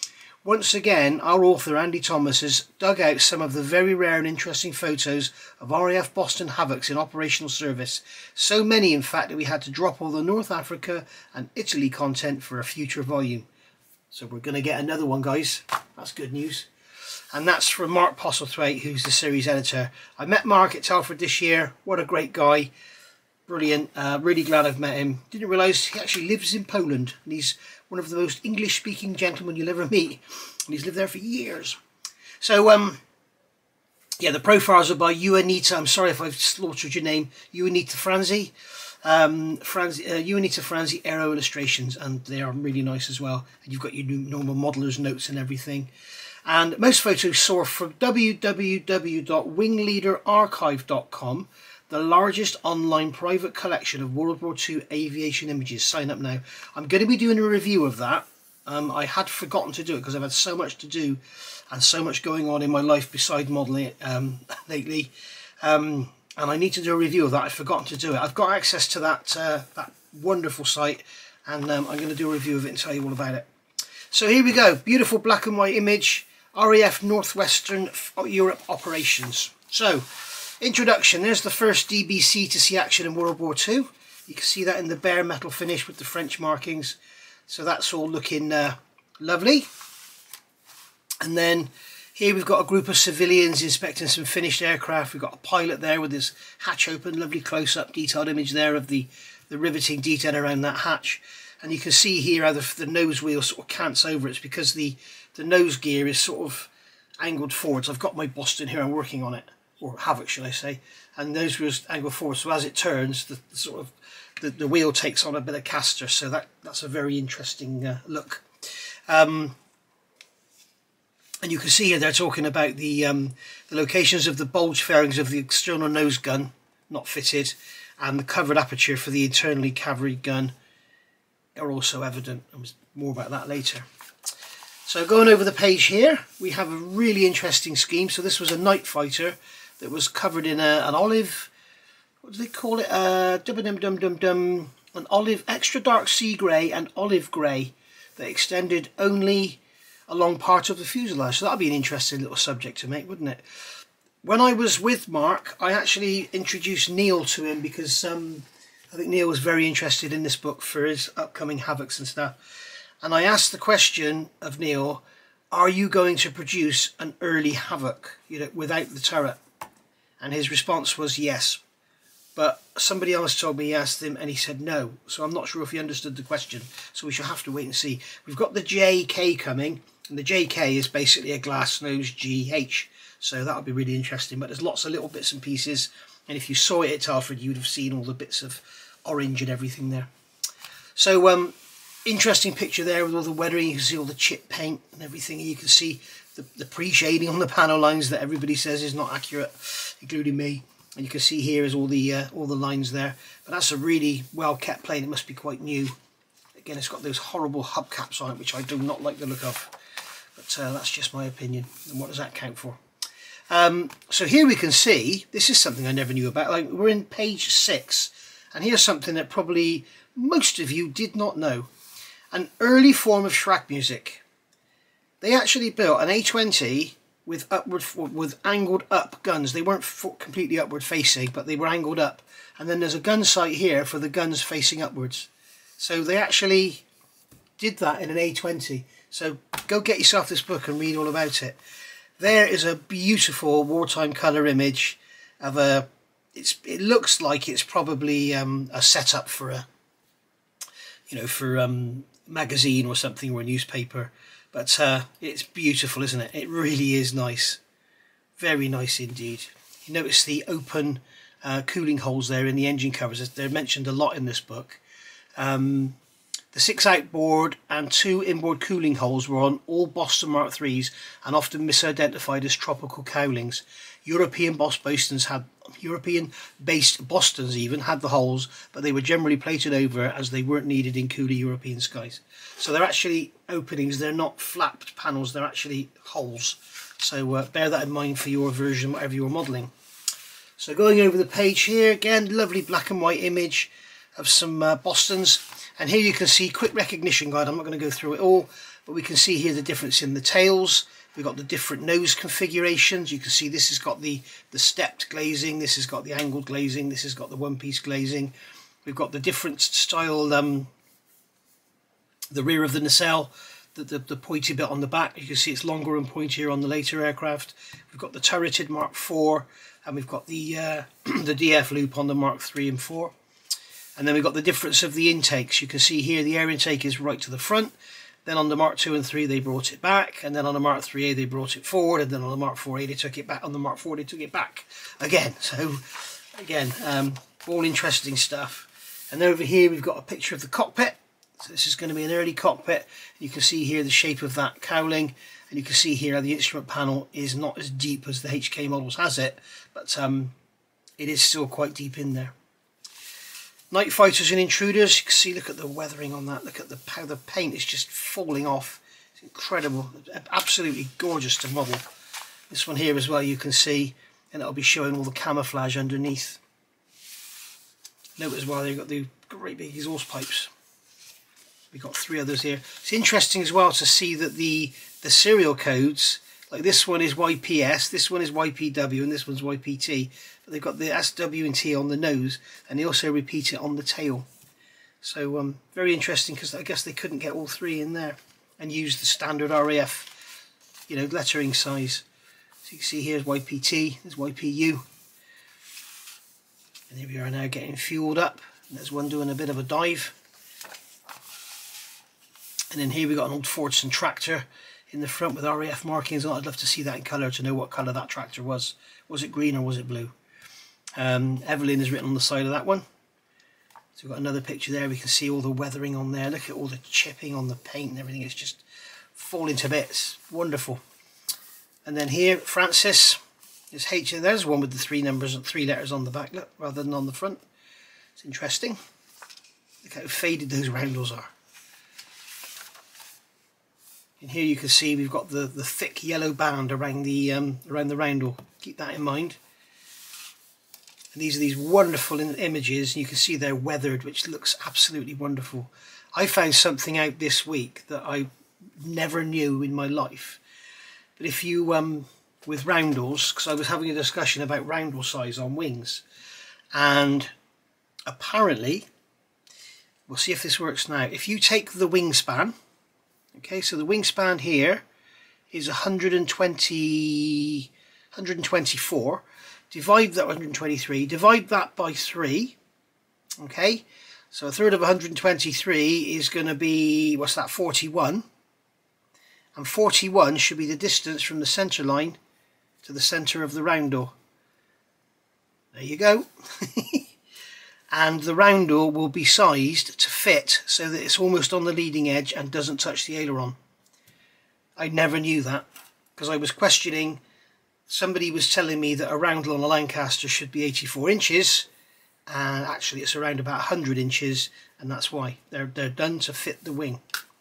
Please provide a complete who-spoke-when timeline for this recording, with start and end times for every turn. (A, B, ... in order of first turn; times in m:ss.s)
0:00.4-0:13.5 A
0:14.1-0:16.7 A
0:17.3-0:22.7 A
0:23.5-0:31.8 A
0:32.4-0:33.0 A
0:34.2-0:45.9 A
0:46.5-1:13.5 A
1:14.1-1:29.7 A
1:31.2-1:59.6 A
2:01.4-2:10.5 A
2:11.6-2:13.9 A
2:14.9-2:21.5 A
2:22.2-2:33.4 A
2:34.2-2:42.4 A
2:43.0-2:49.4 A
2:50.2-2:51.6 A
2:52.4-3:10.1 A
3:11.0-3:26.0 A
3:26.6-3:29.7 A
3:30.4-3:32.8 A
3:33.5-3:41.7 A
3:42.3-3:44.2 A
3:45.2-3:56.8 A
3:57.6-4:01.6 A
4:02.2-4:09.7 A
4:11.1-4:17.6 A
4:18.4-4:24.8 A
4:25.4-4:26.0 A
4:26.5-4:49.7 A
4:50.6-5:08.3 A
5:08.8-5:10.7 A
5:12.3-5:23.1 A
5:24.0-5:27.7 A
5:28.2-5:50.3 A
5:51.0-5:52.3 A
5:53.7-6:01.8 A
6:02.5-6:06.4 A
6:08.2-6:10.5 A
6:11.7-6:24.3 A
6:25.0-6:30.1 A
6:30.9-6:32.0 A
6:32.6-6:34.8 A
6:36.9-6:40.2 A
6:42.7-6:50.1 A
6:51.0-6:52.8 A
6:54.0-7:00.8 A
7:01.8-7:03.2 A
7:03.7-7:07.4 A
7:08.2-7:08.8 A
7:09.8-7:11.3 A
7:14.2-7:19.4 A
7:21.2-7:30.4 A
7:31.2-7:36.0 A
7:36.7-7:37.3 A
7:38.1-7:38.9 A
7:40.1-7:42.6 A
7:43.3-7:44.8 A
7:45.5-7:52.6 A
7:53.4-7:58.2 A
7:59.6-8:02.2 A
8:02.8-8:04.1 A
8:05.7-8:07.1 A
8:07.9-8:13.6 A
8:14.8-8:17.2 A
8:17.9-8:21.7 A
8:22.3-8:27.0 A